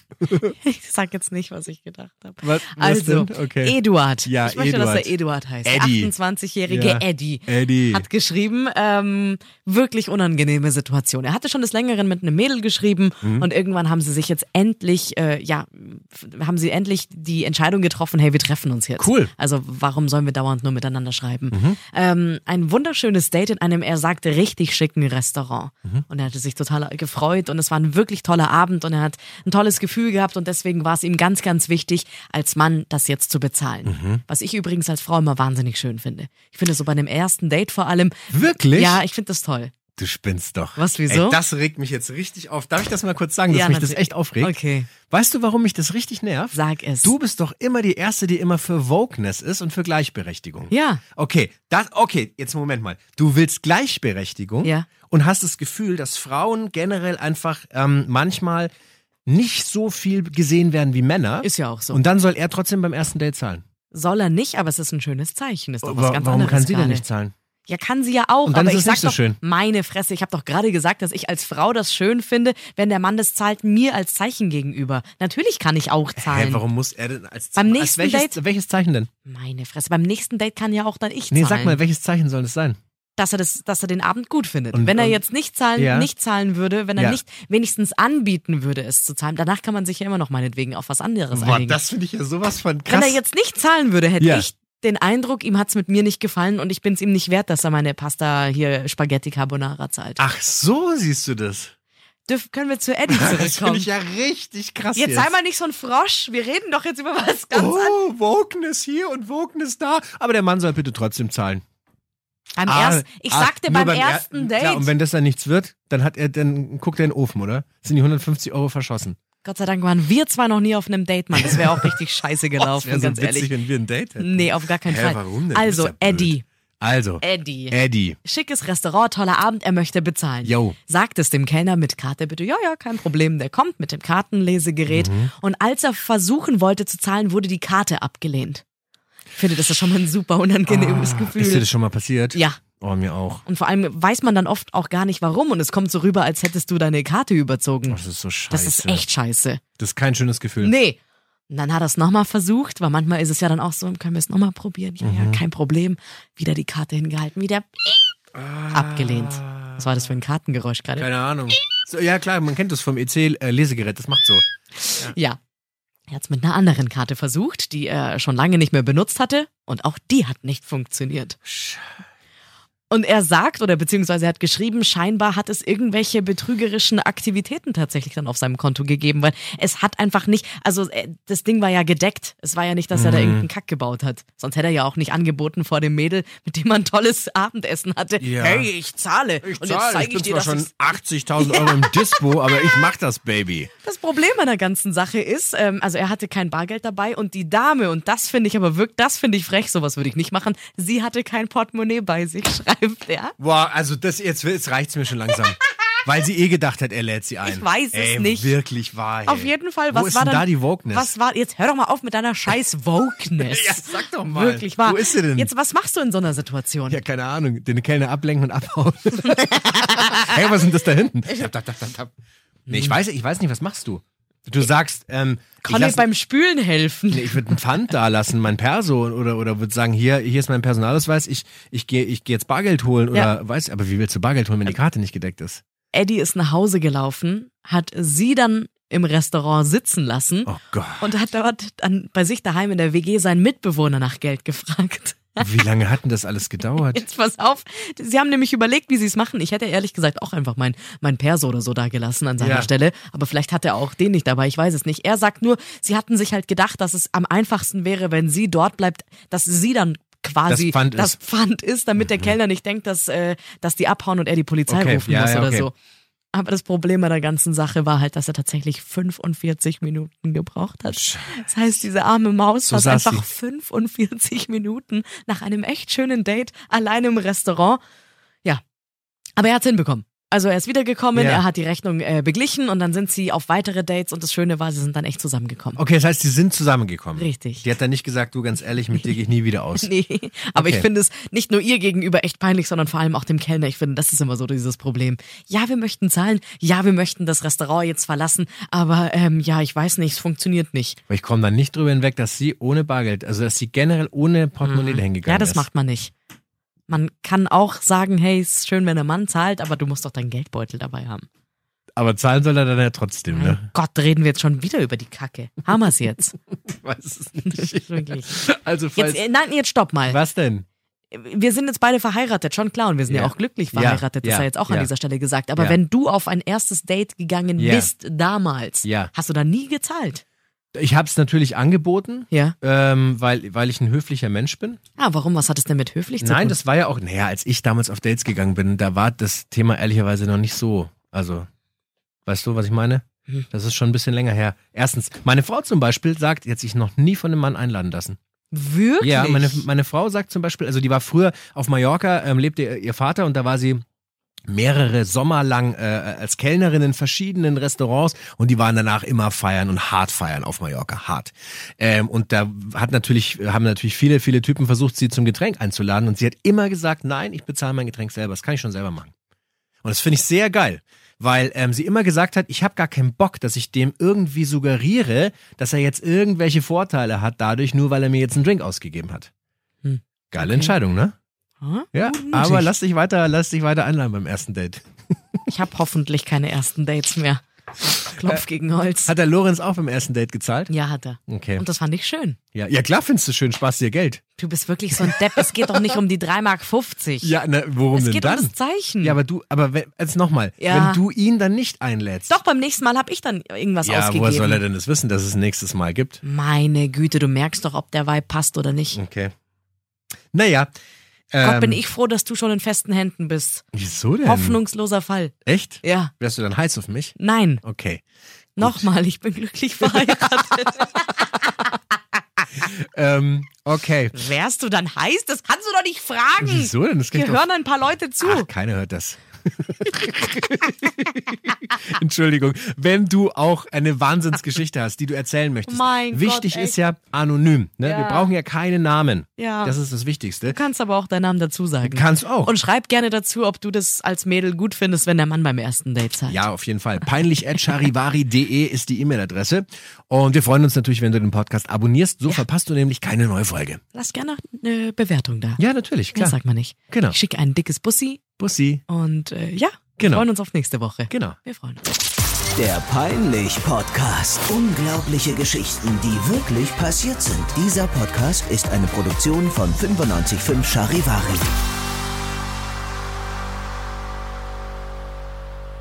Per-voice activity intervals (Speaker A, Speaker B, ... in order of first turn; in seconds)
Speaker A: 0.4-39.7, 40.8-41.4, 43.5-44.9, 46.5-47.1, 50.7-51.0, 54.6-54.9, 61.4-62.0, 63.9-67.0, 67.7-76.6, 77.5-78.4, 79.2-81.8, 83.2-91.8, 92.9-100.2, 102.2-103.9, 104.9-108.0, 112.6-114.9, 119.4-123.5, 124.2-126.4, 127.2-138.6, 139.3-141.7, 142.3-142.6, 143.4-149.6, 150.6-151.0, 151.5-158.1, 158.7-161.1, 164.8-165.4, 166.1-171.4, 172.9-190.8, 191.4-192.2, 193.8-203.3, 207.4-208.6, 209.2-217.0, 219.7-220.3, 222.7-222.9, 225.6-227.6, 235.9-245.6, 246.8-265.7, 266.3-277.8, 279.4-285.8, 287.2-287.6, 289.8-301.0, 304.6-306.1, 306.9-311.2, 313.3-316.4, 317.5-320.2, 321.1-330.2, 335.0-336.6, 348.5-349.6, 379.8-380.8, 381.6-382.7, 385.5-389.1, 390.7-392.4, 394.4-397.3, 397.9-399.2, 400.6-401.0, 402.3-404.6, 406.2-409.0, 411.4-413.6, 414.2-416.1, 417.2-417.6, 418.6-421.4, 424.1-428.5, 435.7-436.8, 437.8-438.3, 439.4-439.8, 440.4-446.4, 453.9-455.6, 456.1-458.2, 458.9-461.9
Speaker B: 2.4-5.1, 5.6-6.1, 6.7-8.1, 13.2-13.5, 19.0-19.3, 21.5-21.8, 33.9-34.2, 38.3-39.0, 40.0-44.5, 45.1-58.7, 59.2-63.6, 65.8-67.3, 68.5-69.4, 76.2-79.1, 81.3-82.8, 84.7-85.2, 85.8-86.1, 87.0-87.2, 91.3-93.2, 94.2-94.5, 100.2-101.7, 103.1-105.3, 107.5-111.6, 112.7-119.2, 121.3-121.9, 122.6-128.2, 130.4-130.8, 134.9-135.3, 140.7-143.4, 147.9-149.1, 149.8-150.7, 155.0-155.4, 158.3-160.0, 161.0-164.4, 171.4-171.8, 182.9-183.5, 188.2-188.7, 189.4-193.7, 203.4-211.1, 213.4-215.5, 216.9-222.1, 222.7-226.1, 227.1-235.6, 240.4-241.1, 245.4-247.0, 252.4-252.7, 260.5-261.2, 262.0-262.3, 264.7-265.7, 270.9-271.5, 272.7-273.2, 281.1-281.4, 285.8-289.9, 290.5-290.9, 301.1-305.7, 311.9-313.6, 316.6-319.2, 320.1-320.6, 323.1-324.9, 327.6-327.9, 328.8-329.1, 330.7-334.8, 336.2-341.5, 342.2-348.2, 349.0-353.8, 354.5-369.1, 369.8-379.3, 380.3-381.1, 381.9-384.8, 389.1-390.7, 391.3-391.6, 392.5-394.2, 395.0-395.7, 397.2-402.4, 403.8-406.2, 408.9-409.3, 410.3-410.7, 411.3-411.8, 413.7-414.6, 415.4-418.0, 418.6-418.9, 419.8-420.4, 422.6-424.2, 426.4-427.4, 428.2-440.6, 441.8-442.5, 446.3-453.8, 455.6-456.4, 456.9-457.2, 458.4-458.8, 460.0-460.3, 461.1-461.4
Speaker C: 462.6-471.5